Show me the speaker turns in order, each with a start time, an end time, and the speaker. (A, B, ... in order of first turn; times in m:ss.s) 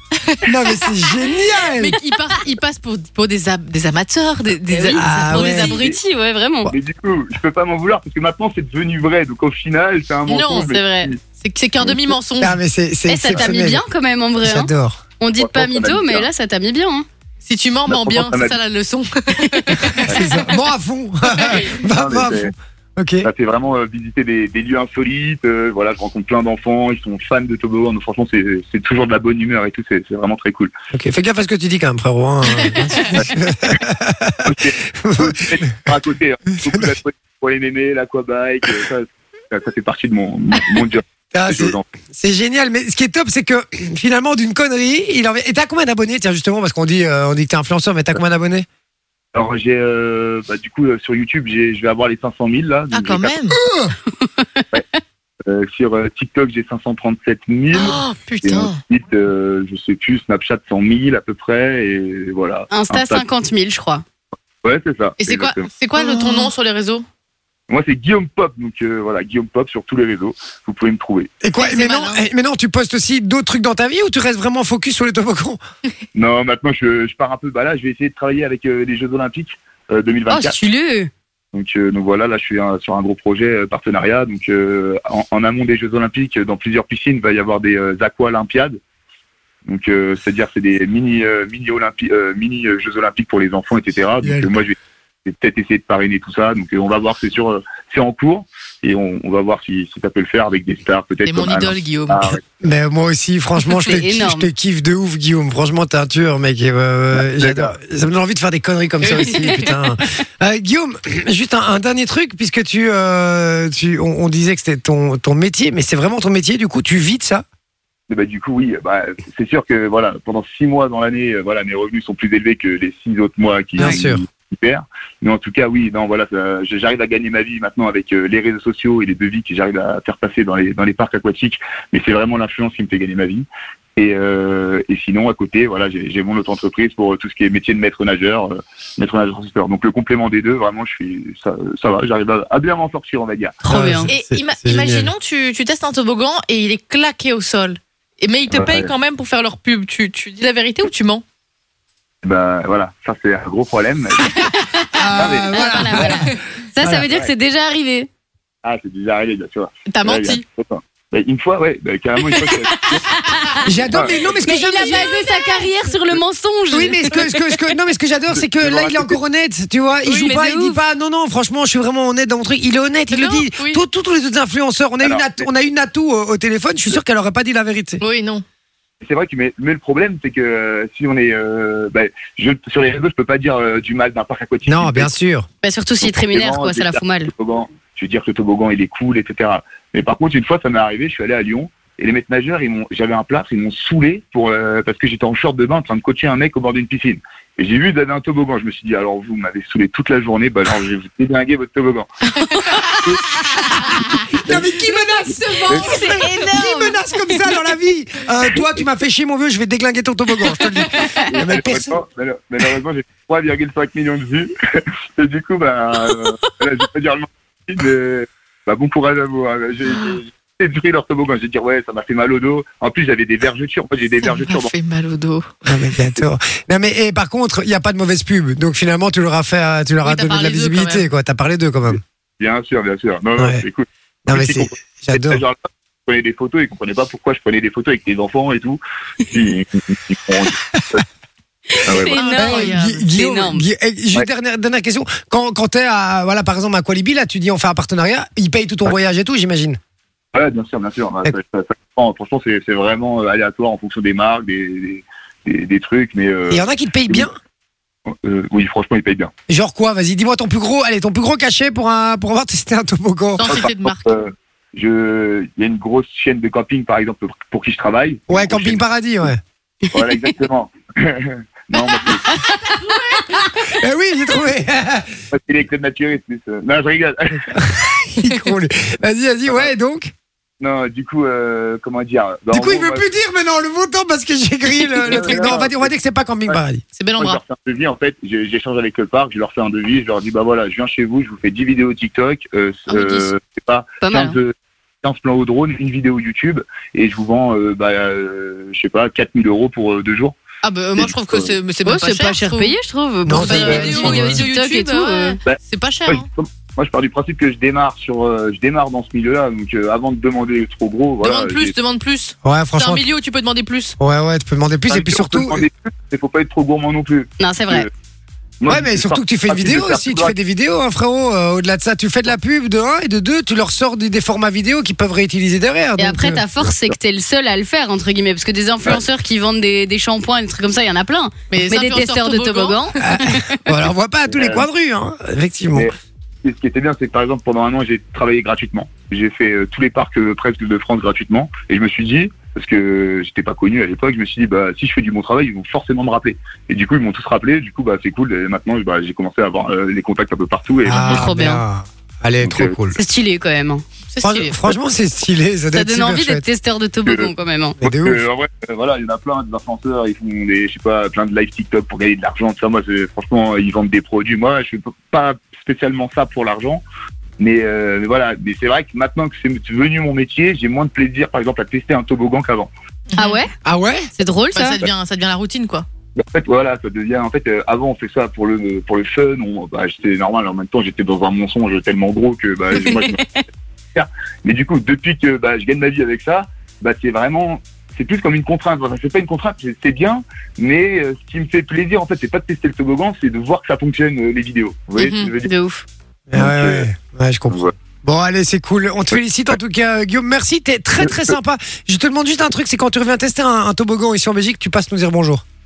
0:00.2-0:00.5 A
0:00.4-0:02.0 B
0:01.8-0:05.8 A
0:04.7-0:06.7 C
0:04.9-0:05.8 B
0:05.6-0:06.0 D
0:06.7-0:11.2 D
0:10.3-0:12.6 A
0:12.4-0:13.8 B
0:13.1-0:17.0 C
0:14.4-0:15.0 B
0:15.4-0:16.3 D
0:17.4-0:20.3 A
0:17.9-0:18.6 D
0:19.4-0:20.0 C
0:20.0-0:23.3 B
0:20.1-0:20.3 D
0:21.5-0:22.5 D
0:23.2-0:30.7 D
0:30.9-0:35.8 B
0:33.1-0:33.8 D
0:34.4-0:41.8 D
0:36.6-0:36.9 B
0:41.3-0:48.6 B
0:49.3-0:53.3 D
0:52.9-0:53.6 A
0:53.5-0:53.9 B
0:54.2-0:54.6 C
0:55.4-1:03.2 D
0:57.7-0:58.8 A
1:02.7-1:04.0 C
1:04.6-1:05.7 D
1:05.2-1:07.0 A
1:07.7-1:11.3 D
1:11.4-1:15.6 B
1:11.6-1:12.2 A
1:16.1-1:20.6 D
1:20.3-1:21.1 C
1:21.5-1:28.8 D
1:29.6-1:42.4 D
1:34.2-1:34.6 B
1:41.2-1:42.4 A
1:42.6-1:57.4 B
1:43.8-1:44.5 C
1:47.2-1:47.7 D
1:49.2-1:49.5 A
1:58.1-2:23.6 D
2:03.8-2:04.2 B
2:23.6-2:24.1 C
2:23.7-2:25.1 B
2:24.1-2:31.2 A
2:28.5-2:28.9 D
2:32.2-2:34.5 D
2:34.7-2:38.1 C
2:34.9-2:37.1 B
2:35.2-2:36.1 D
2:38.6-2:43.0 D
2:39.9-2:40.4 A
2:42.2-2:43.6 A
2:43.1-2:43.7 C
2:43.6-2:45.2 B
2:44.4-2:47.4 C
2:44.8-2:45.6 A
2:46.7-2:58.0 B
2:48.3-2:49.2 D
2:50.1-2:50.8 C
2:53.1-2:53.8 A
2:55.0-2:55.4 D
2:58.0-2:58.4 A
2:59.0-3:05.1 D
3:04.7-3:05.5 B
3:05.6-3:07.3 C
3:06.0-3:22.1 D
3:22.4-3:23.2 C
3:24.3-3:32.0 B
3:24.4-3:24.7 D
3:25.5-3:27.4 C
3:30.9-3:31.3 C
3:31.3-3:44.7 D
3:44.2-3:45.5 A
3:45.6-3:52.0 B
3:50.0-3:51.1 A
3:52.4-4:01.0 D
3:53.4-3:53.6 B
3:54.2-3:55.4 B
4:00.7-4:01.0 B
4:01.7-4:03.6 C
4:02.0-4:03.0 A
4:02.3-4:09.8 B
4:10.3-4:17.3 D
4:16.5-4:17.3 B
4:18.1-4:19.3 D
4:19.5-4:23.5 B
4:23.4-4:24.1 A
4:23.5-4:28.8 D
4:28.3-4:29.4 B
4:29.9-4:32.4 D
4:32.7-4:33.2 A
4:33.6-4:35.1 B
4:35.3-4:37.6 D
4:37.5-4:40.1 B
4:40.6-4:43.0 D
4:42.5-4:46.8 B
4:45.0-4:45.9 D
4:46.9-4:47.4 A
4:47.2-5:00.4 D
4:52.9-4:53.3 A
4:54.0-4:54.4 C
5:00.6-5:02.8 A
5:01.0-5:01.5 D
5:01.8-5:05.4 C
5:03.2-5:04.4 B
5:03.3-5:06.3 A
5:05.5-5:11.7 D
5:11.2-5:14.0 A
5:12.4-5:13.0 B
5:14.0-5:15.6 B
5:14.9-5:17.9 D
5:17.4-5:17.9 C
5:18.6-5:20.3 D
5:18.7-5:26.4 B
5:26.0-5:33.7 C
5:31.5-5:32.8 A
5:33.0-5:35.9 B
5:34.3-5:34.6 D
5:35.7-5:51.3 D
5:50.8-5:53.0 B
5:50.9-5:51.6 C
5:52.4-5:52.7 D
5:53.0-5:53.8 C
5:54.1-5:54.7 A
5:54.2-5:56.4 B
5:55.7-5:57.8 C
5:57.0-5:57.3 D
5:57.8-5:58.2 B
5:57.8-6:06.8 D
6:07.4-6:12.7 D
6:13.1-6:13.4 A
6:13.2-6:13.5 C
6:13.6-6:14.1 B
6:14.2-6:14.8 C
6:14.5-6:15.8 A
6:16.2-6:23.4 D
6:22.9-6:23.2 C
6:23.9-6:35.5 D
6:35.0-6:35.3 A
6:35.4-6:35.8 C
6:36.3-6:45.4 B
6:36.4-6:36.8 D
6:41.0-6:41.3 D